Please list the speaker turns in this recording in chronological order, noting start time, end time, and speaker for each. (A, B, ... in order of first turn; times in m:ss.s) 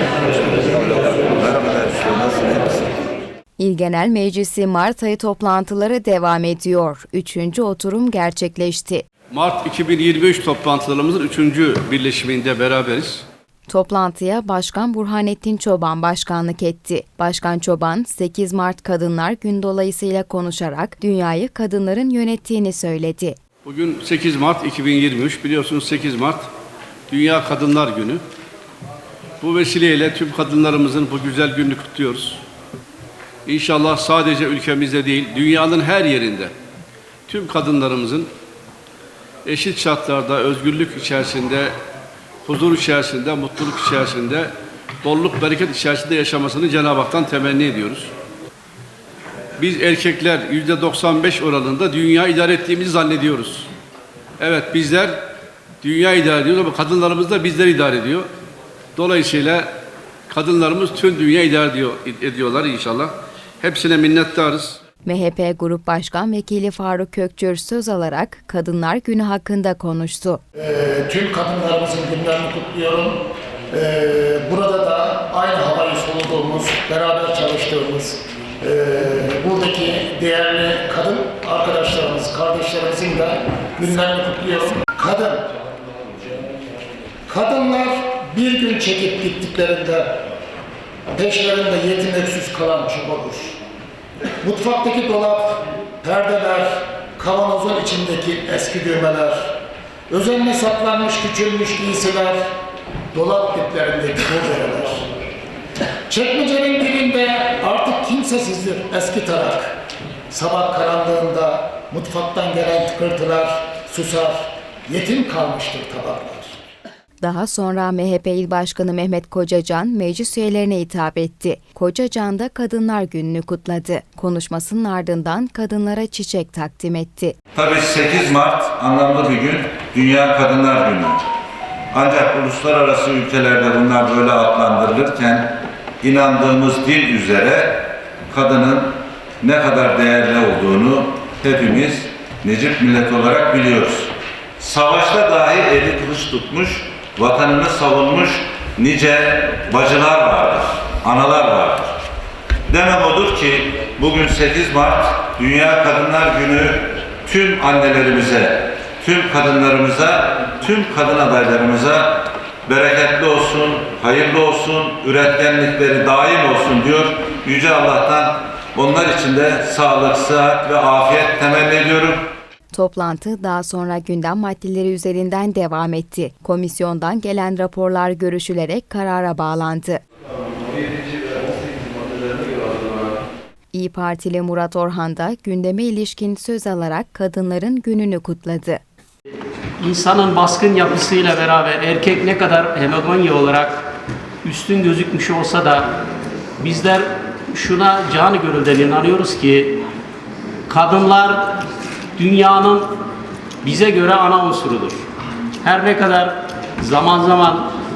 0:00.6-0:02.9 A
0:03.6-0:09.0 B
0:09.3-0:13.2 C
0:13.7-0:23.4 B
0:23.6-0:26.5 C
0:27.1-0:28.2 C
0:29.4-0:32.4 C
0:33.5-0:36.5 C
0:37.3-0:38.3 C
0:39.4-0:41.7 C
0:42.5-0:44.5 C
0:45.0-0:48.1 C
0:49.6-0:53.7 C
0:54.4-0:55.2 C
0:55.8-0:58.3 C
0:59.0-0:59.7 C
1:00.3-1:04.8 C
1:05.0-1:10.4 B
1:10.6-1:25.5 D
1:27.3-1:30.2 D
1:31.1-1:33.6 D
1:34.4-1:42.5 D
1:43.1-1:45.1 D
1:46.1-1:49.8 D
1:50.3-1:56.6 D
1:57.2-2:07.4 B
2:07.6-2:11.2 A
2:11.9-2:32.0 A
2:32.7-2:52.3 A
2:52.7-3:00.0 B
3:03.7-3:08.8 B
3:09.8-3:13.9 E
3:14.4-3:15.9 E
3:16.6-3:19.8 E
3:20.7-3:21.6 E
3:22.2-3:22.9 E
3:23.6-3:25.0 E
3:25.6-3:27.7 E